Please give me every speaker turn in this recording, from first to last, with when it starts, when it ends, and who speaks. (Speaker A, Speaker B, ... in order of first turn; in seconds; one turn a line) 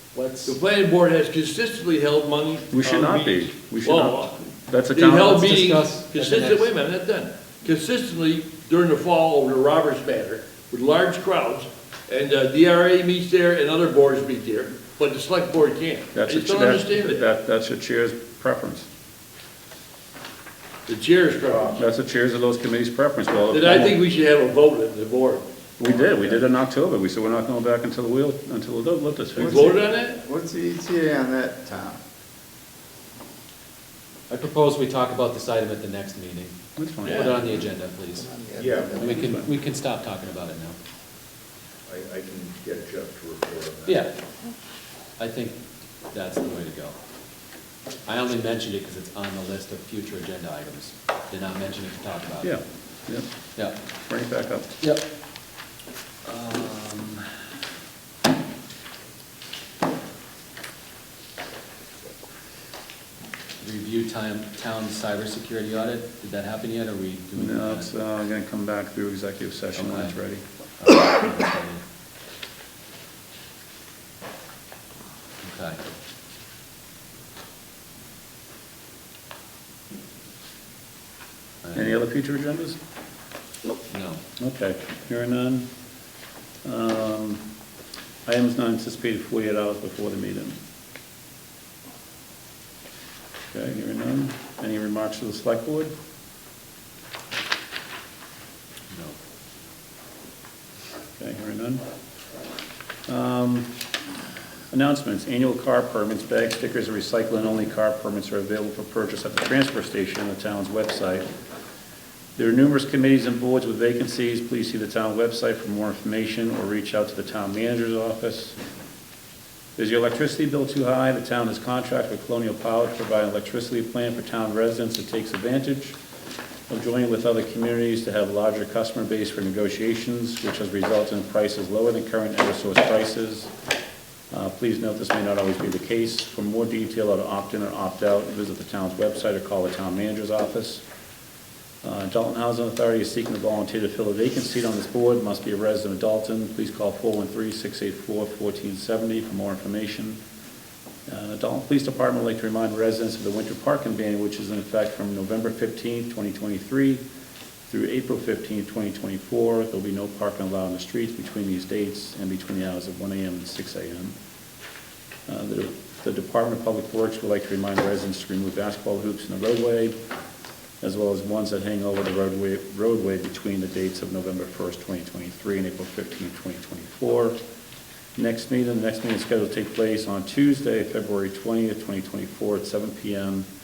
Speaker A: 0.1-0.6
Speaker B: 0.5-4.3
Speaker C: 2.7-5.5
Speaker B: 4.9-17.1
Speaker A: 5.3-6.7
Speaker C: 16.1-18.9
Speaker B: 20.9-21.5
Speaker D: 21.5-21.8
Speaker C: 21.8-24.0
Speaker B: 23.5-25.4
Speaker C: 25.8-29.7
Speaker D: 25.8-26.4
Speaker E: 29.3-32.0
Speaker B: 29.5-30.1
Speaker A: 34.3-36.5
Speaker C: 36.8-37.4
Speaker A: 37.0-38.3
Speaker E: 38.1-39.3
Speaker D: 38.6-39.4
Speaker A: 39.0-40.8
Speaker C: 39.1-39.5
Speaker D: 41.9-44.1
Speaker A: 43.9-44.1
Speaker A: 45.2-45.6
Speaker A: 46.1-47.0
Speaker A: 48.0-52.5
Speaker C: 52.4-53.3
Speaker C: 54.0-54.7
Speaker A: 56.2-57.3
Speaker A: 63.6-67.9
Speaker C: 67.3-70.4
Speaker A: 69.7-70.2
Speaker A: 70.8-71.8
Speaker A: 75.4-75.8
Speaker C: 81.7-82.8
Speaker A: 83.9-84.2
Speaker C: 84.4-85.7
Speaker C: 86.6-87.4
Speaker C: 88.2-90.6
Speaker C: 93.5-95.9
Speaker A: 98.9-99.2
Speaker C: 101.2-101.8
Speaker C: 103.1-103.7
Speaker C: 104.7-111.2
Speaker C: 112.4-118.6
Speaker C: 119.8-126.0
Speaker C: 126.7-133.5
Speaker C: 134.3-140.8
Speaker C: 141.8-150.2
Speaker C: 151.1-157.0
Speaker C: 157.7-164.1
Speaker C: 165.3-169.9
Speaker C: 170.8-177.3
Speaker C: 178.2-183.5